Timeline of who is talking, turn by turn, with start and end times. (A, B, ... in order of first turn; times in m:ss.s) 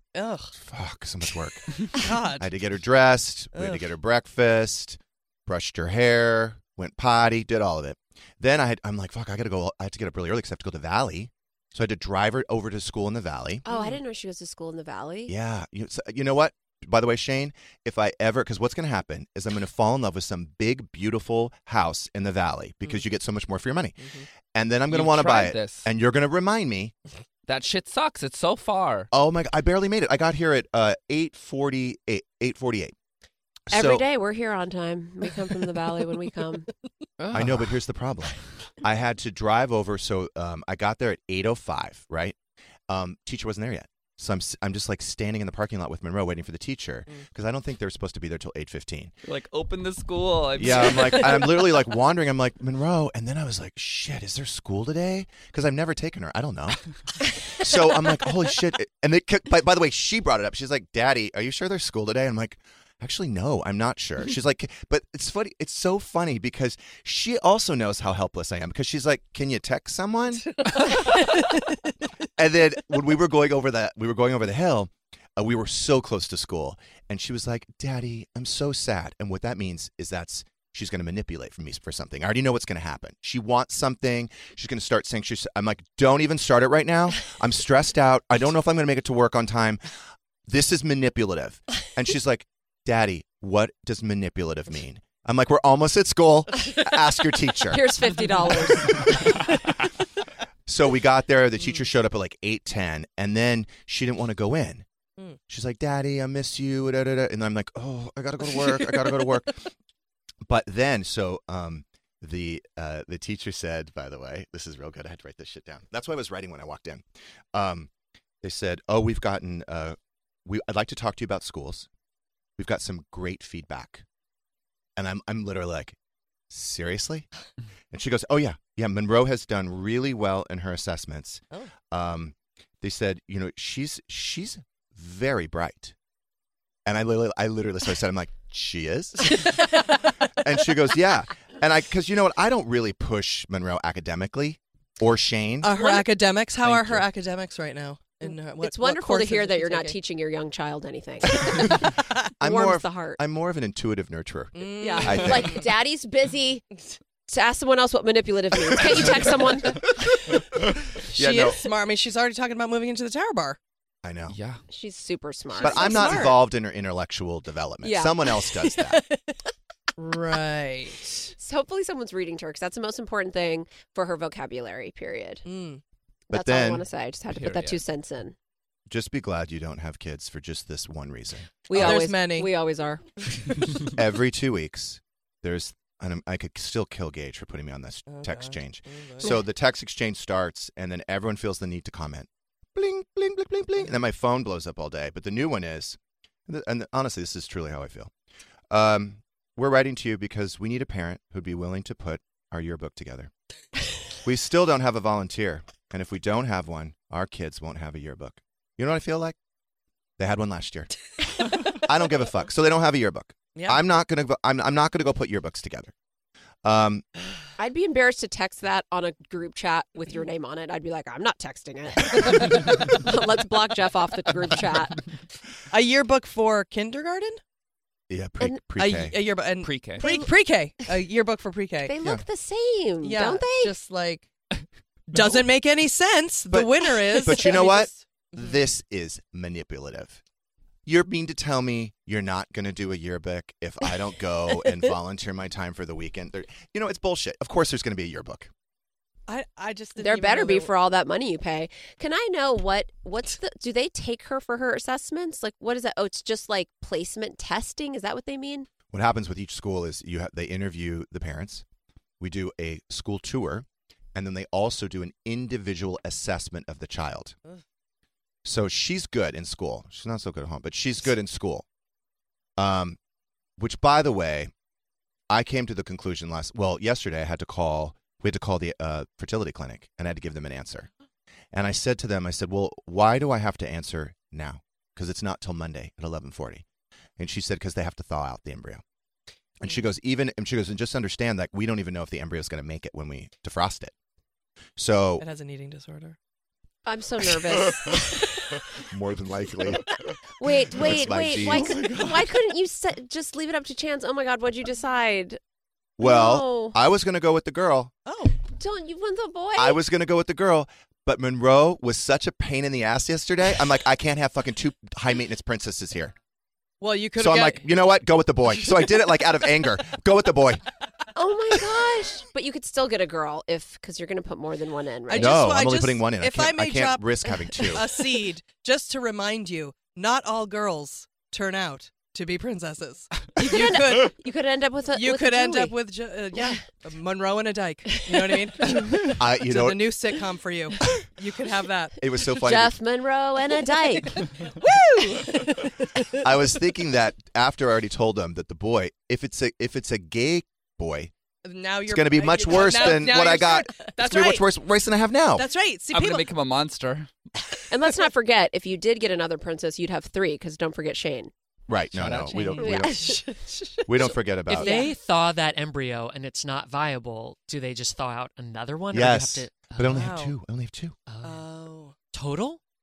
0:00.1-0:00.5 A
0:00.6-0:13.6 B
0:01.9-0:02.5 A
0:03.6-0:03.8 A
0:13.6-0:15.3 C
0:13.7-0:14.0 A
0:15.3-0:26.9 B
0:24.0-0:24.2 A
0:24.9-0:25.9 D
0:27.5-0:29.1 D
0:29.1-0:32.9 B
0:33.7-0:34.0 B
0:33.7-0:36.7 C
0:37.3-0:42.4 B
0:42.9-0:49.1 B
0:49.2-0:51.5 D
0:50.5-0:56.8 B
0:57.5-1:10.5 B
1:12.4-1:29.8 B
1:30.5-1:37.9 B
1:37.7-1:39.4 C
1:40.7-1:44.8 B
1:45.5-1:49.7 B
1:50.4-1:57.9 B
1:58.4-2:01.9 B
2:02.6-2:04.0 B
2:05.0-2:06.0 B
2:06.5-2:07.3 B
2:07.9-2:15.9 B
2:16.8-2:19.5 B
2:20.4-2:25.7 B
2:25.6-2:30.0 A
2:25.8-2:26.0 C
2:26.6-2:27.0 D
2:28.2-2:33.2 C
2:32.4-2:35.6 B
2:34.5-2:35.6 A
2:34.7-2:36.6 C
2:37.3-2:40.3 C
2:41.1-2:43.6 A
2:41.1-2:41.7 B
2:44.0-2:44.4 B
2:44.3-2:44.6 D
2:44.7-2:46.4 C
2:45.6-2:46.4 A
2:45.6-2:49.0 B
2:47.8-2:48.3 C
2:48.8-2:49.1 A
2:50.0-2:51.3 A
2:51.4-2:55.4 C
2:55.4-2:55.8 A
2:56.3-2:56.8 B
2:56.3-2:58.3 C
2:57.3-2:57.8 D
2:58.9-3:02.0 B
3:01.7-3:03.0 C
3:01.7-3:02.5 A
3:03.9-3:18.1 B
3:08.1-3:09.4 A
3:18.7-3:23.3 B
3:24.2-3:29.4 B
3:30.2-3:30.9 B
3:31.6-3:35.9 B
3:33.5-3:33.8 A
3:36.6-3:37.0 B
3:37.6-3:45.0 C
3:45.7-3:47.4 A
3:48.1-3:49.2 B
3:48.8-3:51.9 A
3:49.6-3:50.1 D
3:50.0-3:50.3 C
3:51.8-3:53.7 C
3:53.0-3:54.3 A
3:55.1-3:58.6 A
3:56.5-4:00.2 B
4:00.8-4:08.5 B
4:09.3-4:10.7 A
4:10.0-4:18.7 C
4:18.9-4:21.6 B
4:22.2-4:27.3 B
4:28.4-4:31.6 B
4:32.6-4:33.0 B
4:33.6-4:34.5 B
4:35.3-4:40.9 B
4:41.5-4:46.6 B
4:47.2-4:48.8 B
4:49.6-4:53.9 B
4:54.8-4:55.2 B
4:55.2-4:56.2 A
4:56.8-4:58.6 C
4:58.9-4:59.8 B
5:00.4-5:05.4 C
5:00.7-5:02.1 B
5:06.0-5:07.9 B
5:06.0-5:06.8 C
5:08.0-5:08.4 A
5:08.5-5:09.8 C
5:09.5-5:16.1 B
5:16.8-5:17.7 A
5:17.2-5:20.6 B
5:21.1-5:25.5 C
5:25.1-5:34.2 A
5:25.1-5:27.9 B
5:33.4-5:35.8 C
5:34.9-5:42.0 A
5:36.3-5:36.6 C
5:37.9-5:38.5 C
5:39.1-5:39.9 B
5:42.0-5:42.7 B
5:42.3-5:44.3 C
5:44.5-5:45.8 A
5:46.2-5:51.1 B
5:51.4-5:54.5 A
5:51.8-5:55.5 B
5:55.3-5:56.3 A
5:55.9-5:57.1 D
5:57.7-6:01.3 C
6:01.7-6:03.2 B
6:01.9-6:02.8 D
6:02.6-6:03.2 C
6:02.7-6:03.8 A
6:03.8-6:04.8 B
6:04.5-6:10.1 E
6:08.9-6:11.0 B
6:09.9-6:10.4 A
6:11.1-6:11.5 E
6:11.2-6:12.0 A
6:12.1-6:12.6 E